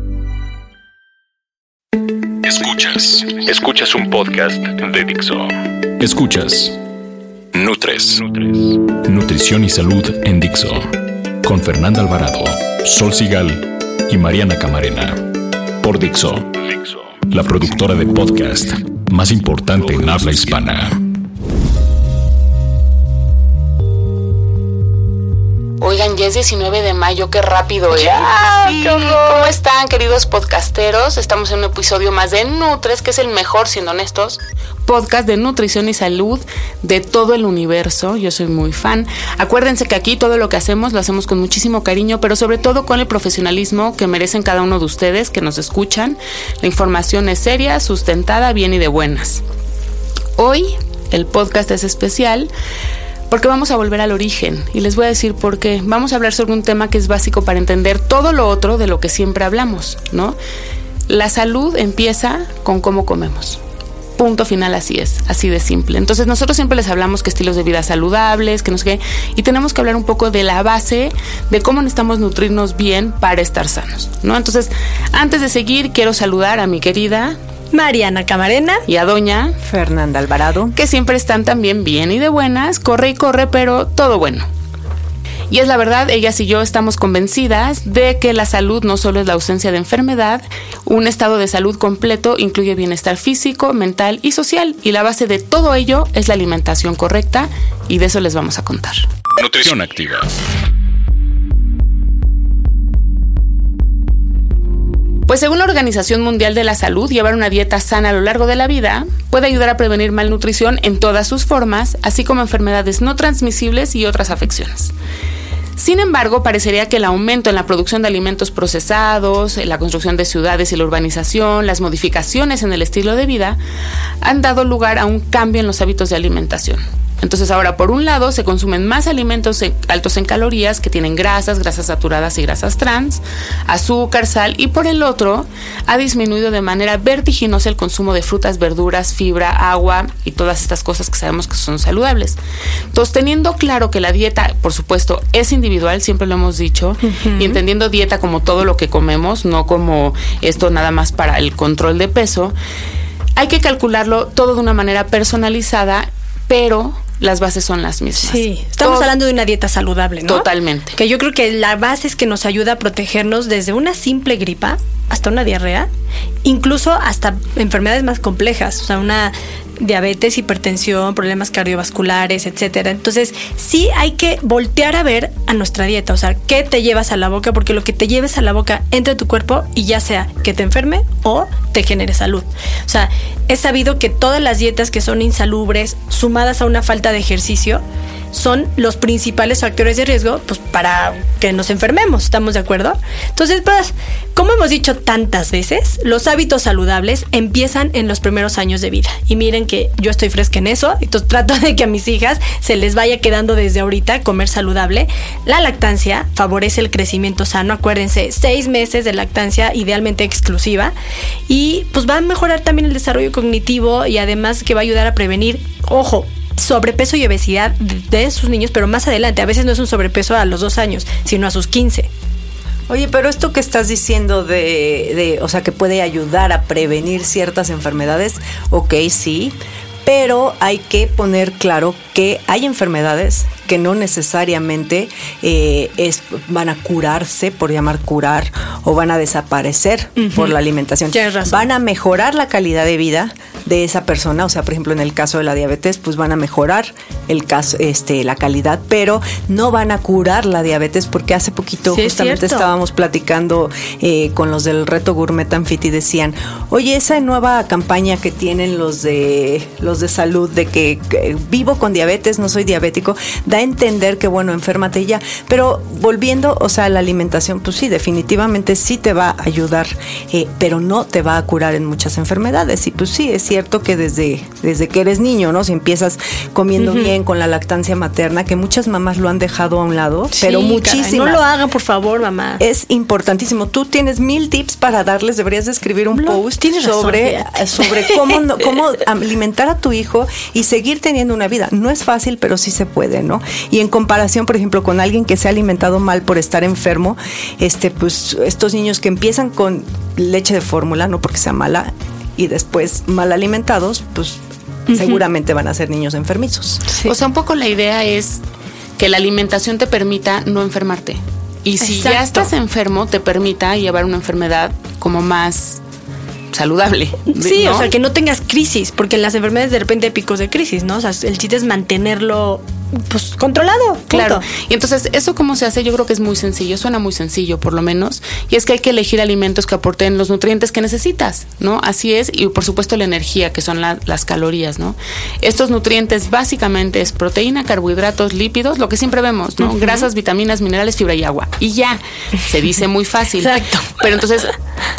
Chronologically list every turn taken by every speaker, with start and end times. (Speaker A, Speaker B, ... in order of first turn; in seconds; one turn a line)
Speaker A: 2.4-6.8
Speaker A: 7.5-10.8
Speaker A: 11.4-21.0
Speaker B: 25.8-49.4
Speaker C: 27.9-29.5
Speaker B: 50.4-52.5
Speaker B: 53.3-60.4
Speaker B: 61.1-63.6
Speaker B: 64.2-77.4
Speaker C: 77.7-78.8
Speaker B: 78.9-79.6
Speaker D: 79.6-80.8
Speaker B: 80.7-84.5
Speaker B: 85.5-99.0
Speaker A: 99.4-100.3
Speaker B: 105.3-114.9
Speaker B: 115.8-123.6
Speaker B: 124.2-142.4
Speaker B: 142.9-152.6
Speaker C: 147.1-147.6
Speaker B: 153.4-159.1
Speaker C: 158.2-165.9
Speaker B: 160.2-161.0
Speaker C: 166.4-210.9
Speaker C: 211.5-222.1
Speaker D: 222.9-281.4
Speaker C: 240.2-240.5
Speaker C: 241.1-241.7
Speaker C: 251.9-252.7
Speaker C: 276.8-277.1
Speaker C: 280.4-282.6
Speaker D: 282.6-306.8
Speaker C: 286.1-288.4
Speaker C: 304.9-305.2
Speaker C: 306.9-307.1
Speaker B: 307.1-308.4
Speaker B: 309.0-315.8
Speaker C: 311.8-312.5
Speaker B: 316.5-317.9
Speaker C: 317.3-324.5
Speaker B: 324.1-344.5
Speaker C: 339.6-340.1
Speaker C: 343.4-344.0